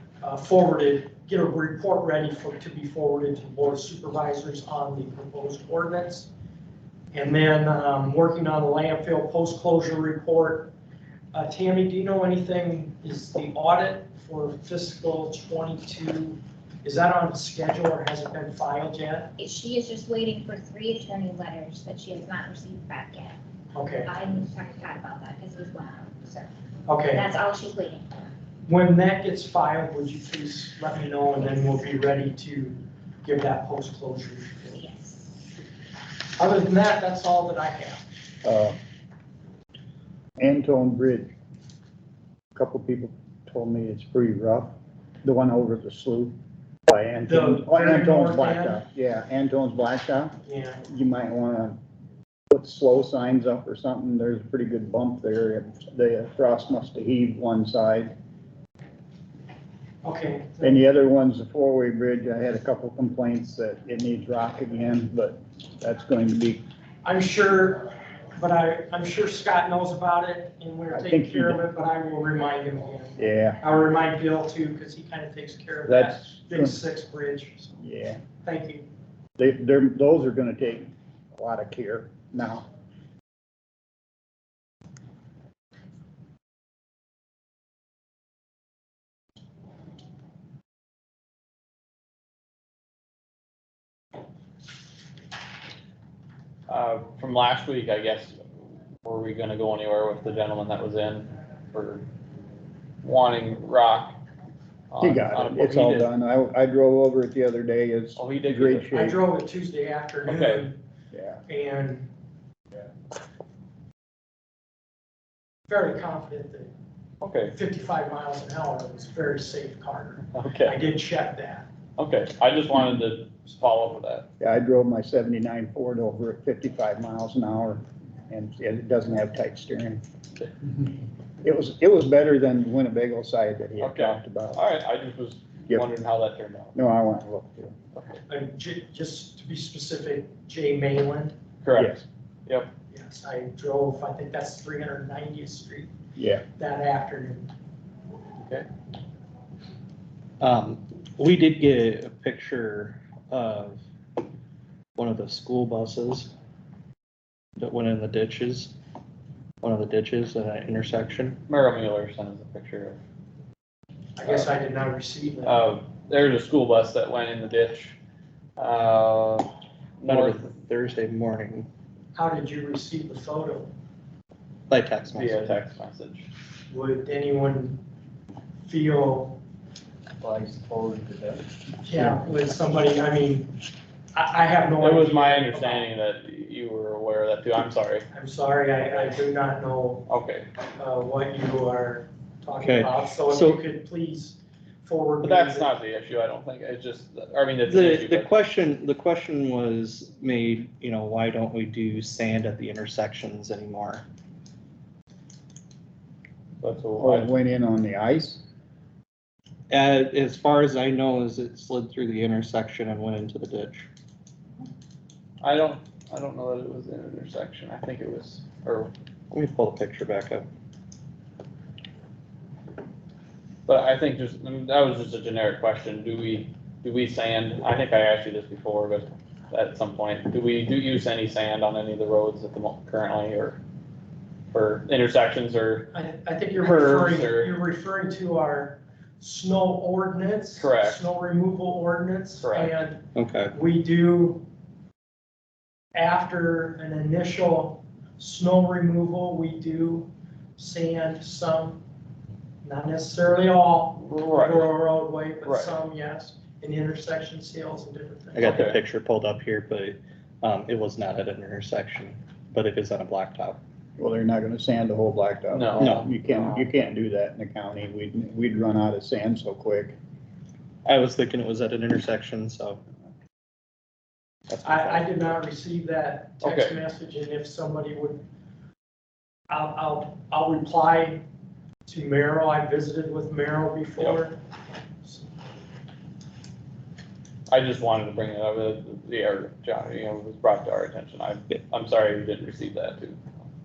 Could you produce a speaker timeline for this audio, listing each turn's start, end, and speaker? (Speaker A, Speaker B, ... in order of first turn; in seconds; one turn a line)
Speaker A: 0.2-6.3
Speaker A: 7.1-10.7
Speaker A: 11.3-19.3
Speaker B: 19.4-23.4
Speaker A: 23.7-24.1
Speaker B: 24.0-26.5
Speaker A: 26.9-27.3
Speaker B: 27.1-28.2
Speaker A: 28.7-34.8
Speaker B: 34.7-35.2
Speaker A: 36.4-38.0
Speaker C: 38.4-38.8
Speaker C: 40.4-41.3
Speaker C: 42.5-46.4
Speaker C: 46.9-51.8
Speaker A: 47.3-48.8
Speaker A: 50.5-50.8
Speaker C: 52.5-58.1
Speaker A: 60.0-60.8
Speaker C: 60.6-66.6
Speaker A: 67.0-77.7
Speaker C: 70.9-71.6
Speaker C: 73.2-73.6
Speaker C: 75.9-76.8
Speaker C: 77.8-78.2
Speaker A: 78.4-78.9
Speaker C: 79.4-82.7
Speaker D: 96.7-98.4
Speaker D: 99.0-102.1
Speaker D: 103.0-104.2
Speaker D: 104.9-106.1
Speaker C: 105.0-109.2
Speaker D: 108.2-108.9
Speaker A: 108.9-110.8
Speaker D: 110.3-110.7
Speaker C: 111.1-111.4
Speaker A: 111.5-112.1
Speaker A: 115.7-116.7
Speaker D: 117.2-117.6
Speaker A: 117.5-121.7
Speaker D: 120.3-120.8
Speaker D: 122.0-124.3
Speaker C: 124.4-130.0
Speaker C: 131.4-134.6
Speaker D: 133.8-136.8
Speaker C: 136.8-137.8
Speaker D: 137.9-138.2
Speaker A: 138.3-141.3
Speaker D: 141.6-142.7
Speaker C: 141.8-142.1
Speaker A: 142.9-145.9
Speaker C: 146.2-146.4
Speaker A: 146.6-147.5
Speaker D: 148.4-148.7
Speaker E: 150.4-153.8
Speaker E: 154.9-156.3
Speaker E: 157.6-158.7
Speaker E: 159.6-161.4
Speaker D: 161.5-163.0
Speaker A: 164.2-165.6
Speaker D: 165.4-168.0
Speaker D: 168.6-170.5
Speaker E: 170.1-171.7
Speaker A: 172.1-173.7
Speaker E: 174.7-175.6
Speaker D: 175.1-176.3
Speaker A: 176.7-177.8
Speaker A: 178.6-179.4
Speaker D: 180.2-181.4
Speaker A: 181.8-183.5
Speaker A: 184.1-185.9
Speaker D: 184.8-188.1
Speaker A: 188.1-190.1
Speaker D: 190.1-190.5
Speaker A: 190.8-195.7
Speaker E: 192.6-193.6
Speaker D: 195.2-198.3
Speaker E: 197.7-204.1
Speaker D: 206.6-207.3
Speaker C: 207.0-208.4
Speaker E: 209.7-213.9
Speaker D: 215.4-218.9
Speaker E: 219.3-220.5
Speaker D: 223.7-233.6
Speaker D: 234.5-235.9
Speaker A: 235.9-244.4
Speaker D: 236.6-237.5
Speaker D: 240.6-241.0
Speaker D: 242.4-242.8
Speaker E: 243.1-243.5
Speaker A: 245.9-251.8
Speaker A: 252.6-258.7
Speaker D: 254.0-254.7
Speaker D: 255.4-255.8
Speaker E: 258.4-263.6
Speaker D: 258.4-258.8
Speaker C: 264.0-270.0
Speaker D: 265.5-266.7
Speaker E: 265.8-266.1
Speaker E: 270.9-272.8
Speaker E: 274.5-275.1
Speaker A: 274.6-278.2
Speaker D: 276.4-276.8
Speaker A: 279.5-281.2
Speaker A: 281.9-284.4
Speaker D: 287.5-293.2